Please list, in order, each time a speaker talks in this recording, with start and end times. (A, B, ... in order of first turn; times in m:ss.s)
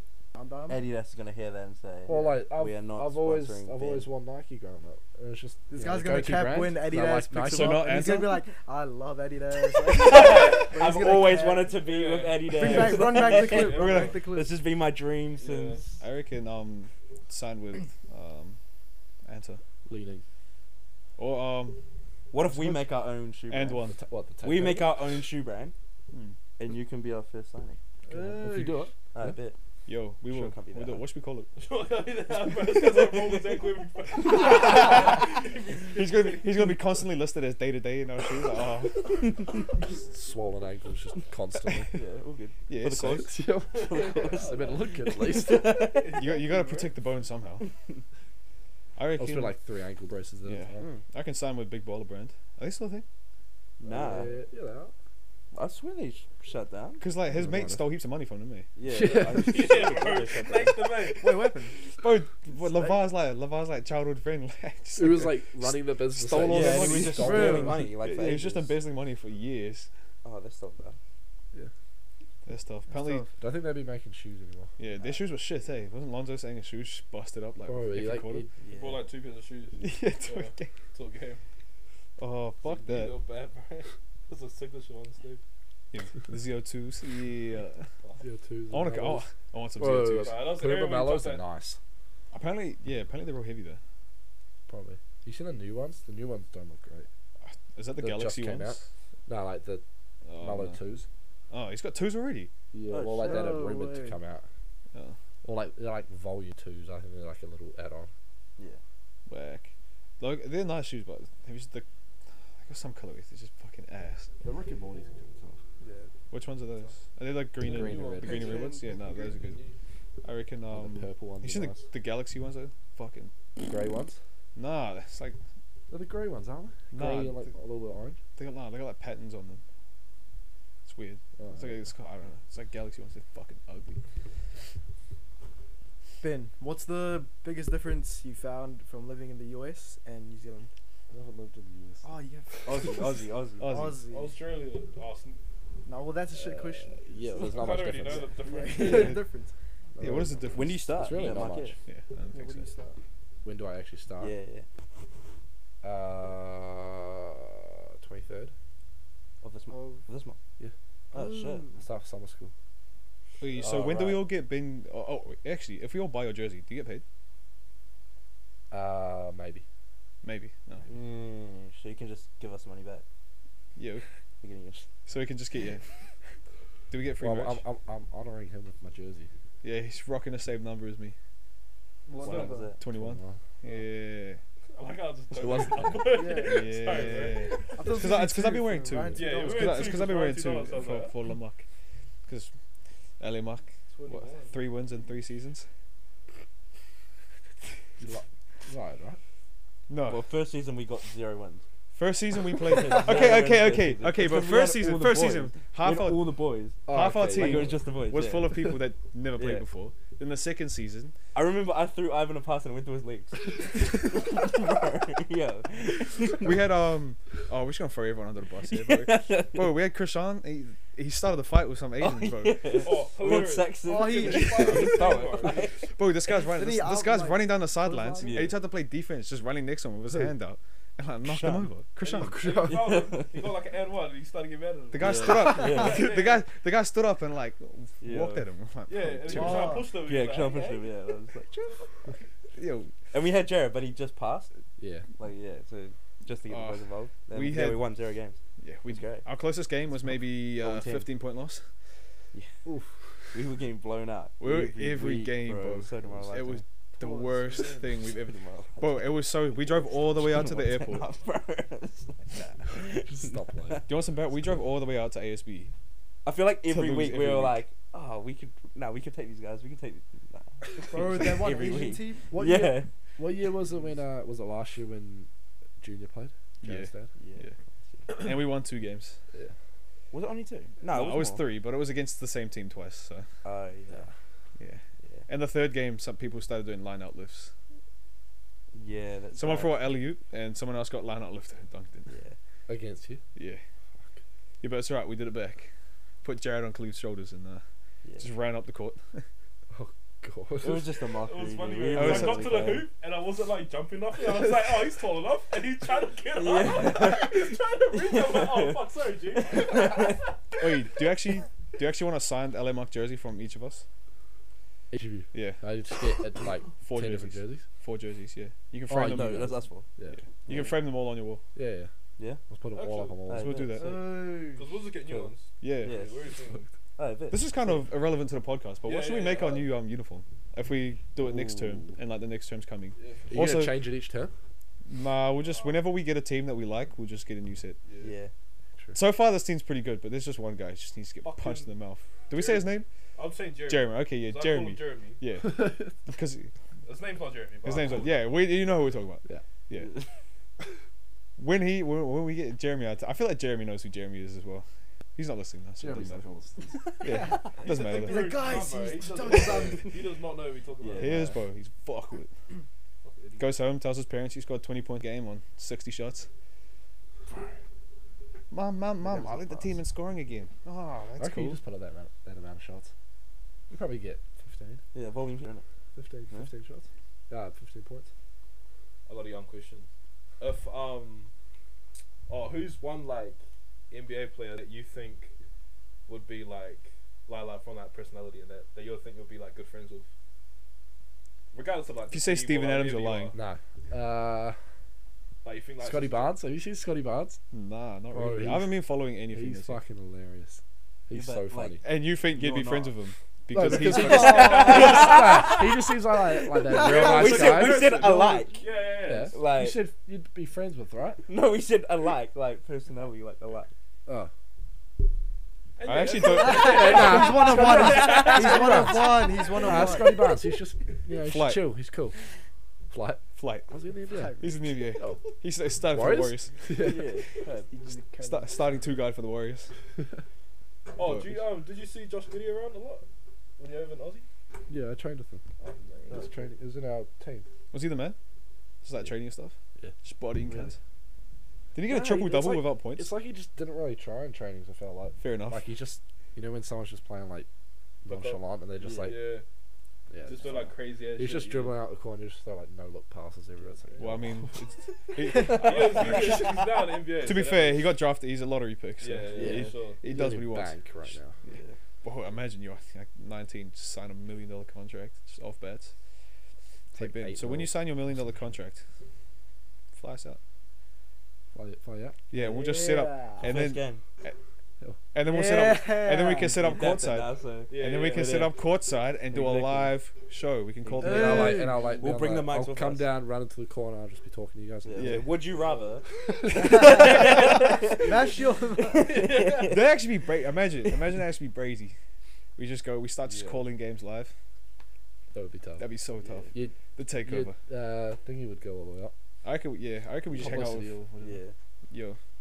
0:00.3-0:00.8 A
0:00.7-0:04.1 B
0:02.1-0:08.1 C
0:05.7-0:11.8 A
0:07.4-0:08.4 D
0:09.8-0:16.0 B
0:11.7-0:14.2 E
0:12.5-0:14.6 A
0:12.6-0:14.1 D
0:15.3-0:15.8 E
0:16.0-0:18.6 D
0:19.2-0:19.6 D
0:19.8-0:20.2 C
0:21.2-0:21.8 D
0:22.3-0:23.8 B
0:22.4-0:22.8 C
0:23.5-0:24.0 D
0:23.9-0:25.0 C
0:24.4-0:25.7 B
0:26.1-0:26.4 D
0:26.6-0:27.8 B
0:28.1-0:28.8 A
0:28.1-0:29.4 C
0:29.1-0:29.6 B
0:29.8-0:31.5 D
0:30.2-0:31.0 B
0:31.6-0:36.6 E
0:32.7-0:33.4 B
0:34.3-0:35.3 D
0:35.9-0:39.3 D
0:39.8-0:41.9 C
0:41.9-0:46.2 B
0:42.7-0:43.3 D
0:43.2-0:45.9 C
0:43.8-0:47.0 E
0:46.1-0:47.7 D
0:49.0-0:49.6 D
0:49.2-0:50.8 C
0:50.4-0:53.0 D
0:53.8-0:54.4 B
0:53.9-0:54.9 C
0:55.5-0:57.0 B
0:57.0-0:58.7 D
0:57.3-0:57.9 C
0:58.8-1:01.0 B
0:58.8-0:59.7 C
0:59.4-1:01.5 E
1:01.0-1:01.8 A
1:01.8-1:09.9 D
1:05.0-1:07.9 C
1:06.4-1:08.7 B
1:07.2-1:07.9 A
1:10.2-1:11.0 B
1:12.4-1:13.3 D
1:12.9-1:13.2 A
1:13.4-1:14.7 C
1:14.8-1:18.5 D
1:17.6-1:18.5 C
1:18.6-1:19.0 B
1:18.7-1:21.4 E
1:19.8-1:20.7 D
1:22.2-1:23.2 D
1:22.6-1:25.4 E
1:25.9-1:27.9 D
1:28.2-1:31.8 C
1:28.7-1:30.4 D
1:30.1-1:31.4 E
1:32.3-1:33.8 D
1:34.7-1:37.1 C
1:37.4-1:38.9 D
1:38.0-1:39.8 C
1:40.2-1:40.8 D
1:40.4-1:41.1 C
1:41.5-1:42.5 D
1:42.7-1:44.5 C
1:42.9-1:43.6 B
1:43.2-1:44.2 A
1:45.4-1:48.1 C
1:49.3-1:51.8 D
1:52.6-1:54.3 D
1:54.4-1:55.6 C
1:55.8-1:56.1 E
1:56.3-1:59.6 D
1:57.6-1:58.6 C
1:57.7-1:59.8 E
2:00.2-2:03.3 D
2:00.7-2:01.9 C
2:03.6-2:04.2 C
2:04.5-2:05.4 D
2:05.9-2:08.2 C
2:06.9-2:07.5 D
2:08.4-2:09.6 D
2:10.8-2:14.0 D
2:11.4-2:11.8 C
2:16.2-2:20.7 A
2:21.1-2:22.1 C
2:22.0-2:23.1 A
2:22.6-2:23.7 B
2:23.6-2:24.0 D
2:23.6-2:24.4 A
2:24.1-2:25.4 E
2:25.8-2:30.5 A
2:26.3-2:28.4 C
2:27.4-2:29.2 E
2:28.8-2:29.2 D
2:30.0-2:30.4 C
2:30.0-2:32.7 D
2:30.5-2:31.8 B
2:30.9-2:31.8 C
2:32.3-2:33.0 A
2:33.4-2:34.3 C
2:34.2-2:34.6 B
2:35.8-2:38.5 C
2:39.4-2:40.4 B
2:39.7-2:40.0 A
2:41.1-2:41.7 B
2:41.1-2:41.8 A
2:41.8-2:42.5 C
2:43.4-2:47.0 D
2:43.6-2:44.3 B
2:48.7-2:49.6 C
2:50.2-2:50.8 D
2:50.9-2:53.0 B
2:53.8-2:54.0 D
2:54.4-2:54.9 B
2:55.0-2:55.8 D
2:56.9-2:57.6 D
2:57.2-2:59.3 C
2:59.6-3:01.1 D
3:02.1-3:02.7 A
3:02.2-3:02.8 B
3:02.2-3:02.6 E
3:02.8-3:04.4 D
3:02.8-3:03.4 C
3:04.7-3:07.8 E
3:05.4-3:06.2 C
3:06.1-3:10.0 A
3:06.4-3:11.6 D
3:09.2-3:11.2 E
3:12.2-3:12.5 D
3:13.2-3:15.7 D
3:13.9-3:14.6 E
3:18.0-3:19.2 C
3:19.9-3:20.2 D
3:20.1-3:21.6 B
3:21.9-3:26.3 D
3:22.6-3:28.8 B
3:26.9-3:27.8 C
3:26.9-3:31.1 D
3:29.4-3:29.6 B
3:31.3-3:36.5 B
3:36.4-3:42.9 D
3:38.7-3:39.7 B
3:42.0-3:45.9 B
3:42.8-3:45.7 E
3:43.8-3:45.5 A
3:45.9-3:52.4 D
3:46.4-3:48.5 A
3:48.2-3:48.5 B
3:51.3-3:51.7 B
3:52.0-3:53.0 C
3:52.3-3:56.4 E
3:52.7-3:53.3 B
3:54.9-3:59.8 D
3:55.0-3:56.0 B
3:58.0-3:58.4 B
3:58.9-4:01.0 E
3:59.3-4:00.0 A
3:59.9-4:02.1 B
4:02.5-4:02.9 D
4:03.1-4:04.5 B
4:04.8-4:05.0 C
4:05.2-4:09.2 B
4:06.5-4:07.9 D
4:08.6-4:11.6 D
4:10.6-4:11.1 B
4:12.6-4:12.9 C
4:13.3-4:16.6 B
4:14.4-4:21.1 D
4:17.0-4:17.9 A
4:18.2-4:19.0 B
4:20.2-4:23.8 B
4:23.0-4:23.8 C
4:23.9-4:25.7 D
4:26.2-4:32.9 B
4:26.6-4:27.6 D
4:30.9-4:32.8 A
4:33.2-4:35.3 C
4:35.8-4:37.1 C
4:36.6-4:37.5 D
4:37.2-4:38.2 B
4:38.1-4:39.2 D
4:40.1-4:41.5 B
4:40.9-4:43.3 D
4:43.4-4:44.1 B
4:44.6-4:47.5 D
4:48.7-4:49.8 B
4:49.3-4:52.1 D
4:52.1-4:52.4 B
4:52.7-4:53.2 C
4:53.3-4:53.6 D
4:54.6-4:55.7 D
4:56.2-4:57.6 D
4:58.0-4:58.3 B
4:58.2-4:59.2 D
4:59.7-5:01.0 C
5:00.6-5:02.9 B
5:01.2-5:10.3 E
5:01.9-5:02.7 D
5:06.3-5:08.8 B
5:09.5-5:10.2 B
5:10.6-5:13.8 D
5:14.9-5:17.6 C
5:15.3-5:15.6 D
5:16.8-5:19.5 D
5:18.9-5:20.2 C
5:19.0-5:19.9 B
5:20.1-5:21.4 D
5:20.5-5:20.7 B
5:21.5-5:21.9 C
5:22.5-5:23.6 C
5:22.7-5:23.2 E
5:23.3-5:24.0 B
5:23.3-5:24.0 D
5:23.8-5:24.7 A
5:24.4-5:26.7 E
5:25.1-5:26.3 B
5:25.6-5:26.0 D
5:27.0-5:27.8 B
5:27.3-5:33.8 D
5:28.8-5:29.7 E
5:31.4-5:31.7 C
5:33.0-5:33.3 E
5:33.3-5:34.3 C
5:34.9-5:37.8 D
5:35.4-5:35.8 E
5:37.9-5:38.1 E
5:38.0-5:38.3 B
5:38.9-5:42.9 D
5:41.2-5:41.7 E
5:42.3-5:45.2 E
5:43.6-5:46.5 D
5:46.8-5:48.2 E
5:47.6-5:49.9 D
5:49.7-5:50.0 B
5:51.4-5:56.2 D
5:55.8-5:56.9 C
5:57.0-5:58.4 D
5:57.0-6:00.0 A
5:57.6-6:01.3 E
6:00.8-6:01.2 B
6:01.0-6:02.3 D
6:01.1-6:01.4 C
6:03.0-6:03.6 E
6:03.4-6:06.3 D
6:08.5-6:11.6 D
6:09.0-6:09.7 B
6:11.2-6:12.9 C
6:13.7-6:14.8 C
6:14.9-6:15.6 B
6:16.0-6:18.1 C
6:19.1-6:19.9 E
6:20.4-6:21.3 E
6:22.3-6:25.3 E
6:26.1-6:30.1 E
6:31.5-6:33.4 E
6:32.1-6:33.4 D
6:33.3-6:34.6 C
6:35.4-6:36.3 E
6:35.8-6:37.4 C
6:37.5-6:39.8 D
6:38.1-6:41.8 C
6:41.1-6:43.0 B
6:41.8-6:45.0 D
6:43.5-6:48.0 C
6:43.8-6:45.1 A
6:43.9-6:45.7 B
6:44.3-6:45.1 E
6:46.7-6:47.4 A
6:46.8-6:48.7 B
6:46.9-6:48.0 D
6:47.3-6:49.4 E
6:49.0-6:51.2 C
6:49.3-6:49.8 B
6:51.3-6:53.7 B
6:55.8-6:59.2 E
6:55.8-6:56.9 D
6:56.2-7:00.3 A
6:56.5-7:02.2 C
7:01.2-7:01.8 D
7:02.9-7:04.4 C
7:03.4-7:03.7 D
7:04.1-7:04.6 A
7:04.4-7:06.6 D
7:05.0-7:05.2 C
7:05.9-7:07.2 C
7:06.7-7:07.7 B
7:07.7-7:09.0 A
7:08.2-7:09.7 D
7:11.0-7:13.1 E
7:11.0-7:11.5 D
7:13.6-7:14.3 E
7:14.7-7:15.4 C
7:15.6-7:16.4 A
7:16.1-7:17.4 C
7:17.7-7:18.2 D
7:18.8-7:20.8 D
7:20.4-7:20.7 C
7:21.7-7:23.1 D
7:21.8-7:27.5 C
7:25.2-7:25.6 D
7:28.0-7:29.3 C
7:28.0-7:28.4 E
7:28.8-7:29.2 B
7:29.0-7:29.4 E
7:30.1-7:34.4 C
7:30.2-7:31.8 E
7:33.6-7:34.3 E
7:34.0-7:36.5 D
7:35.3-7:37.9 E
7:37.2-7:45.9 D
7:39.0-7:40.0 E
7:39.3-7:41.3 C
7:39.4-7:39.7 B
7:41.5-7:41.8 B
7:46.9-7:48.2 C
7:46.9-7:48.8 D
7:49.9-7:50.4 D
7:51.5-7:52.2 C
7:52.3-7:54.4 D
7:52.4-7:53.6 A
7:53.4-7:54.0 B
7:55.1-8:01.7 D
7:55.2-7:56.6 A
7:56.6-7:58.6 B
7:57.7-7:58.5 E
7:59.3-7:59.9 B
8:00.8-8:03.1 B
8:01.0-8:01.8 A
8:01.0-8:05.3 C
8:04.8-8:06.0 B
8:05.0-8:05.4 D
8:06.4-8:06.9 C
8:06.5-8:09.4 A
8:06.6-8:08.2 B
8:09.0-8:09.8 B
8:09.0-8:09.8 E
8:09.6-8:12.0 D
8:12.6-8:14.3 D
8:13.3-8:13.6 B
8:15.3-8:15.9 C
8:15.8-8:17.6 D
8:16.2-8:16.5 B
8:16.5-8:19.1 C
8:19.4-8:21.0 D
8:20.3-8:21.4 C
8:20.4-8:21.5 B
8:21.9-8:22.2 D